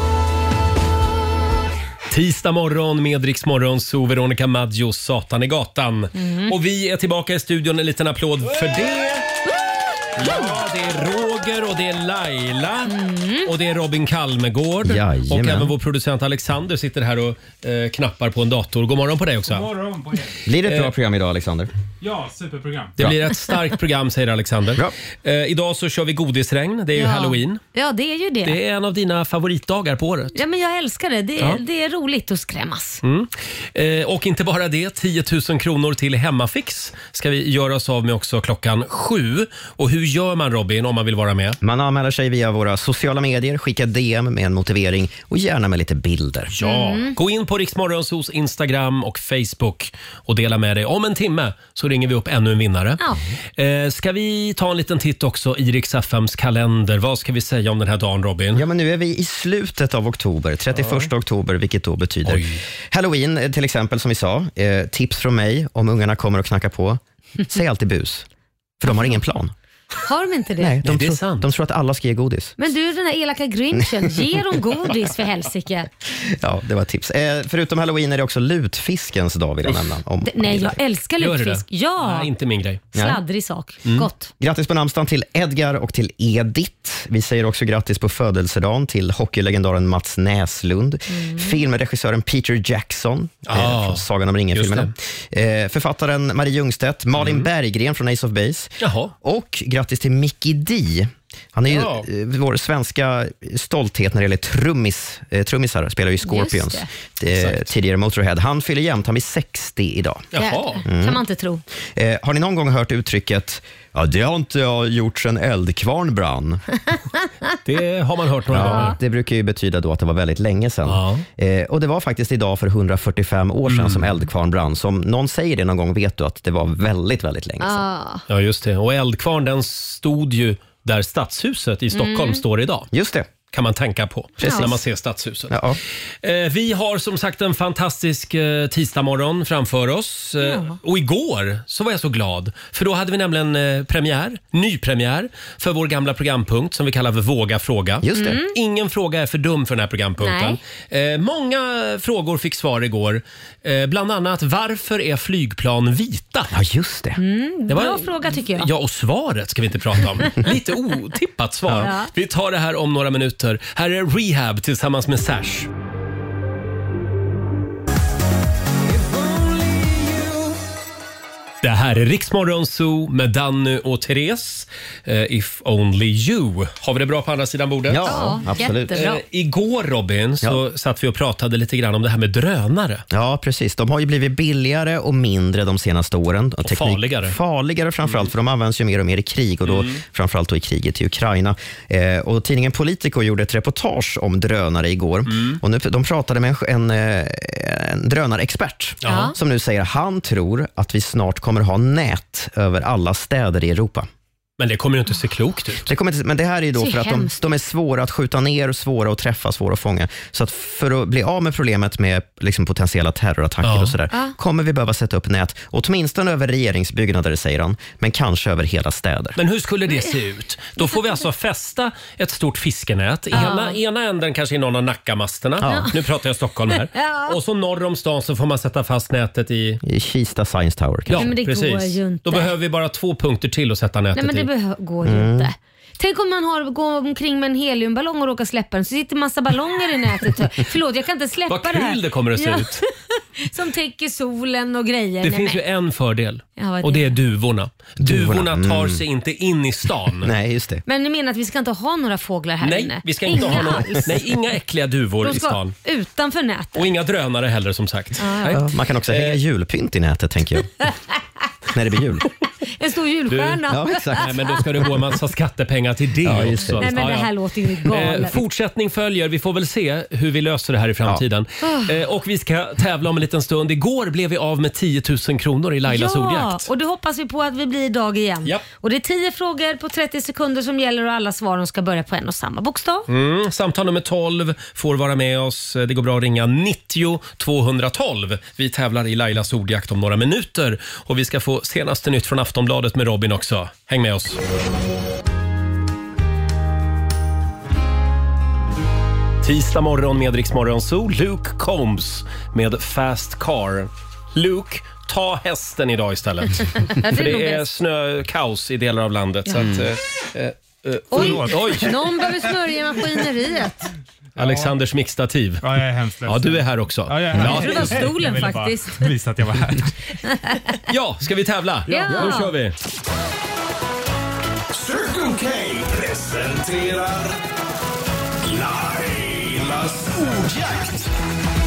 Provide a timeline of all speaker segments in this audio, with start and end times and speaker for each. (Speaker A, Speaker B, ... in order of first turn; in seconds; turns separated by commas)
Speaker A: 2.1-9.3, Speaker B: 6.2-6.5, Speaker A: 10.2-19.7, Speaker B: 12.9-13.5, Speaker C: 14.8-15.7, Speaker D: 19.5-20.4, Speaker C: 20.5-21.7, Speaker A: 20.6-20.9, Speaker D: 22.0-23.0, Speaker A: 23.0-27.6, Speaker B: 27.0-28.6, Speaker A: 28.4-30.4, Speaker B: 30.3-33.0, Speaker A: 33.0-41.6, Speaker C: 41.6-46.5, Speaker A: 46.5-53.0, Speaker B: 46.6-47.1, Speaker A: 53.6-58.6, Speaker C: 58.5-68.3, Speaker A: 62.2-62.6, Speaker C: 68.8-69.5, Speaker B: 70.0-70.7, Speaker C: 70.6-72.6, Speaker A: 70.8-71.5, Speaker B: 72.6-75.9, Speaker C: 76.2-80.8, Speaker B: 80.2-82.3, Speaker A: 81.2-82.8, Speaker C: 82.9-83.2, Speaker B: 83.0-84.3, Speaker C: 84.4-110.3, Speaker A: 93.5-94.9, Speaker A: 97.2-97.5, Speaker A: 98.8-99.1, Speaker A: 101.7-102.0, Speaker B: 106.2-106.9, Speaker A: 107.4-107.6, Speaker A: 110.3-110.8, Speaker B: 110.3-111.6, Speaker C: 110.8-111.2, Speaker C: 112.0-116.6, Speaker A: 117.7-119.0, Speaker C: 118.5-127.8, Speaker B: 118.6-119.0, Speaker A: 120.9-121.2, Speaker A: 123.7-124.1, Speaker B: 127.6-128.2, Speaker A: 128.3-132.9, Speaker B: 131.9-132.4, Speaker C: 132.9-133.3, Speaker A: 133.5-135.6, Speaker B: 134.4-134.7, Speaker C: 134.4-134.8, Speaker C: 135.5-135.8, Speaker A: 136.2-156.5, Speaker B: 140.4-140.7, Speaker C: 148.0-148.4, Speaker B: 148.1-148.5, Speaker B: 150.2-150.6, Speaker C: 156.5-157.2, Speaker B: 157.2-158.7, Speaker A: 157.7-165.7, Speaker B: 161.8-162.1, Speaker A: 171.6-178.4, Speaker C: 177.9-179.0, Speaker B: 178.0-179.2, Speaker A: 178.9-183.0, Speaker C: 183.1-204.1, Speaker A: 186.7-187.4, Speaker A: 189.7-190.0, Speaker A: 195.3-195.6, Speaker A: 199.0-199.3, Speaker B: 199.1-199.3, Speaker A: 204.6-205.8, Speaker C: 205.9-219.4, Speaker B: 206.8-207.4, Speaker A: 213.6-213.9, Speaker A: 219.4-229.8, Speaker B: 223.3-223.8, Speaker C: 225.6-225.9, Speaker B: 225.6-225.9, Speaker B: 226.9-227.4, Speaker C: 229.8-231.3, Speaker A: 231.1-234.5, Speaker B: 231.2-232.5, Speaker B: 234.2-245.6, Speaker C: 235.0-235.5, Speaker A: 241.5-242.8, Speaker A: 245.2-250.3, Speaker B: 246.6-247.2, Speaker C: 248.0-249.0, Speaker C: 250.2-250.8, Speaker B: 250.9-254.1, Speaker A: 252.6-255.7, Speaker B: 255.2-256.8, Speaker A: 256.8-259.4, Speaker B: 258.2-258.6, Speaker C: 258.5-260.7, Speaker C: 261.7-262.3, Speaker B: 262.7-264.2, Speaker A: 263.3-267.3, Speaker C: 263.7-264.3, Speaker C: 266.2-267.0, Speaker B: 266.8-268.4, Speaker A: 267.9-276.7, Speaker B: 271.6-271.9, Speaker B: 275.9-283.1, Speaker A: 283.1-294.4, Speaker A: 299.4-311.9, Speaker B: 306.9-307.7, Speaker C: 309.6-309.9, Speaker B: 311.1-313.9, Speaker D: 311.1-312.0, Speaker D: 314.4-314.8, Speaker A: 314.4-315.6, Speaker D: 315.6-319.9, Speaker A: 316.2-318.1, Speaker B: 317.4-319.1, Speaker B: 320.3-320.6, Speaker A: 320.9-322.7, Speaker B: 321.9-322.5, Speaker D: 321.9-322.3, Speaker E: 324.7-327.4, Speaker E: 328.5-331.1